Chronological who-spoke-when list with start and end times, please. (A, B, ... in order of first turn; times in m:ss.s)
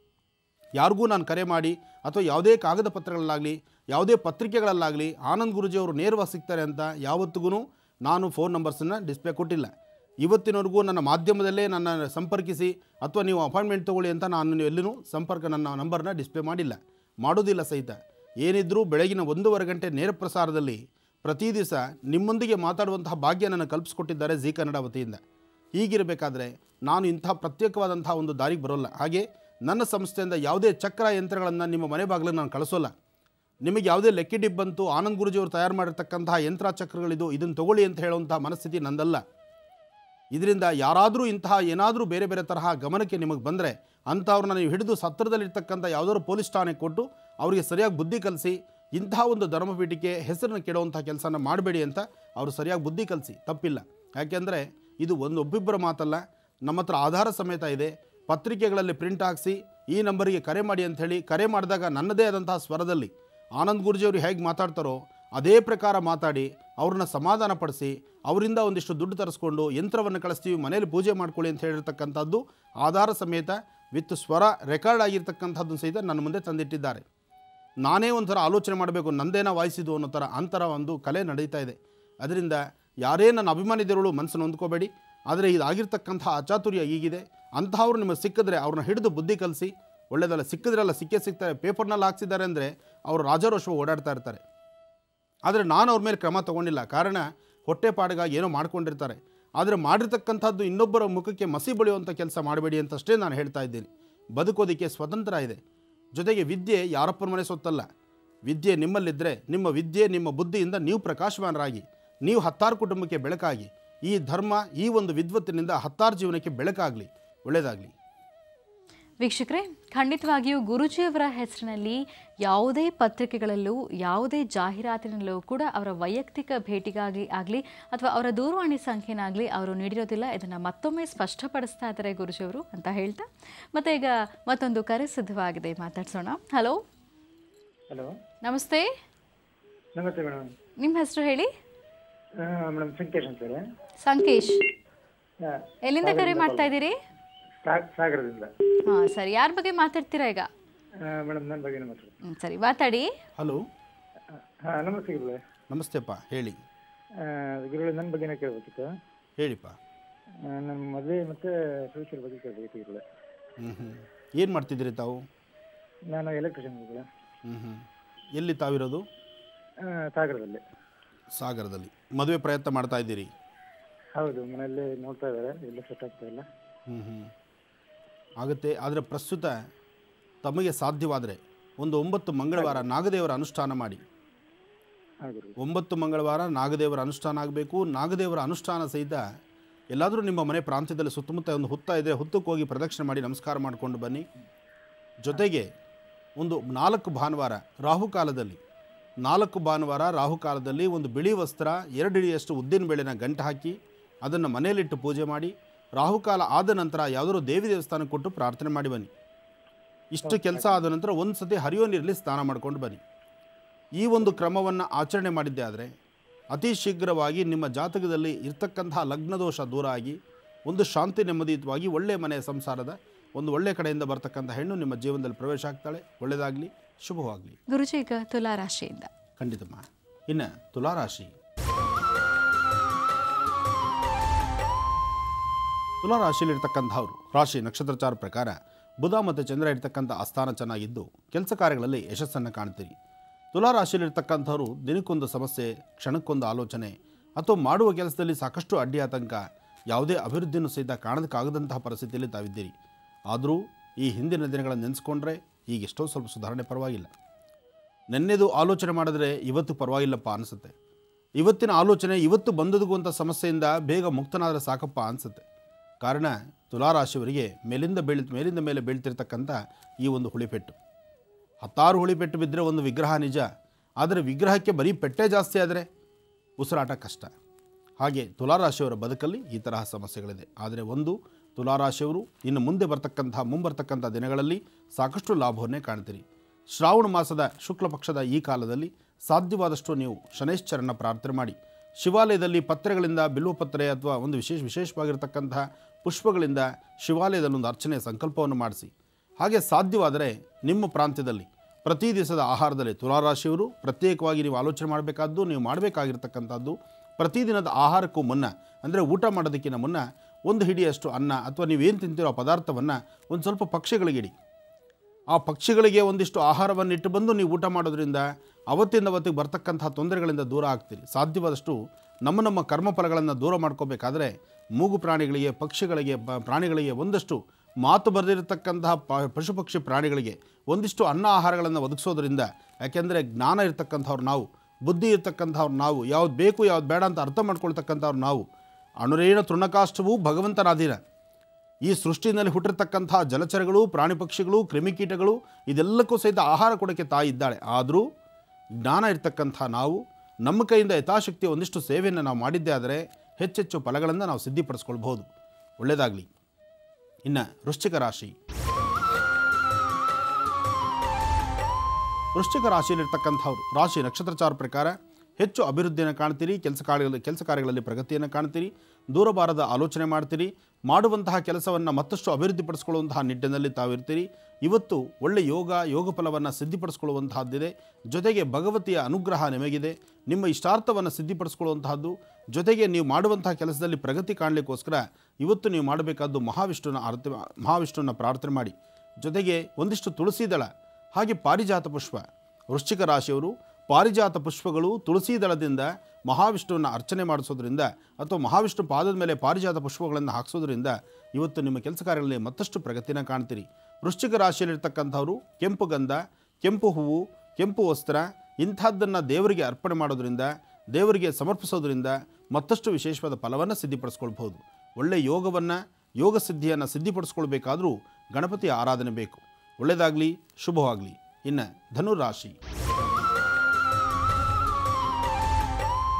0:00.8-0:25.2 A
0:25.8-0:32.9 A
0:33.6-0:39.2 A
0:40.3-1:17.0 A
1:17.8-1:34.4 A
1:35.5-1:45.6 A
1:46.1-1:47.9 A
1:48.5-1:57.9 A
1:59.2-2:16.8 B
2:18.4-2:18.9 B
2:20.0-2:20.5 C
2:20.8-2:21.5 B
2:22.4-2:23.6 C
2:24.0-2:24.6 B
2:25.4-2:26.7 C
2:25.9-2:26.9 B
2:27.6-2:28.5 C
2:28.9-2:30.5 B
2:31.0-2:32.2 C
2:32.3-2:33.1 B
2:33.4-2:33.6 A
2:34.7-2:35.4 C
2:35.7-2:36.6 A
2:37.2-2:38.9 C
2:39.4-2:39.8 A
2:40.5-2:43.0 C
2:43.6-2:45.2 A
2:46.1-2:47.1 C
2:47.5-2:47.8 A
2:48.4-2:49.0 A
2:49.9-2:50.6 C
2:51.3-2:53.3 A
2:54.2-2:56.4 C
2:56.9-2:57.3 A
2:58.4-2:59.6 A
3:00.4-3:04.0 A
3:05.3-3:05.6 C
3:05.6-3:09.2 A
3:09.9-3:14.2 A
3:15.2-3:15.7 A
3:16.4-3:18.6 A
3:19.2-3:29.1 A
3:30.1-3:33.0 A
3:30.2-3:30.7 C
3:34.0-3:35.9 A
3:36.5-3:47.6 A
3:47.7-3:49.1 B
3:49.4-3:51.3 A
3:56.0-4:03.0 A
4:03.5-4:12.7 A
4:13.3-4:17.1 A
4:18.1-4:20.7 A
4:21.4-4:25.4 A
4:26.0-4:30.8 A
4:31.6-4:33.5 A
4:34.0-4:35.9 A
4:36.6-4:37.3 A
4:38.0-5:14.3 A
5:15.3-5:38.5 A
5:39.0-5:41.0 A
5:41.8-5:48.0 A
5:48.8-5:55.3 A
5:55.8-5:56.3 A
5:57.2-5:58.4 A
6:02.4-7:02.6 A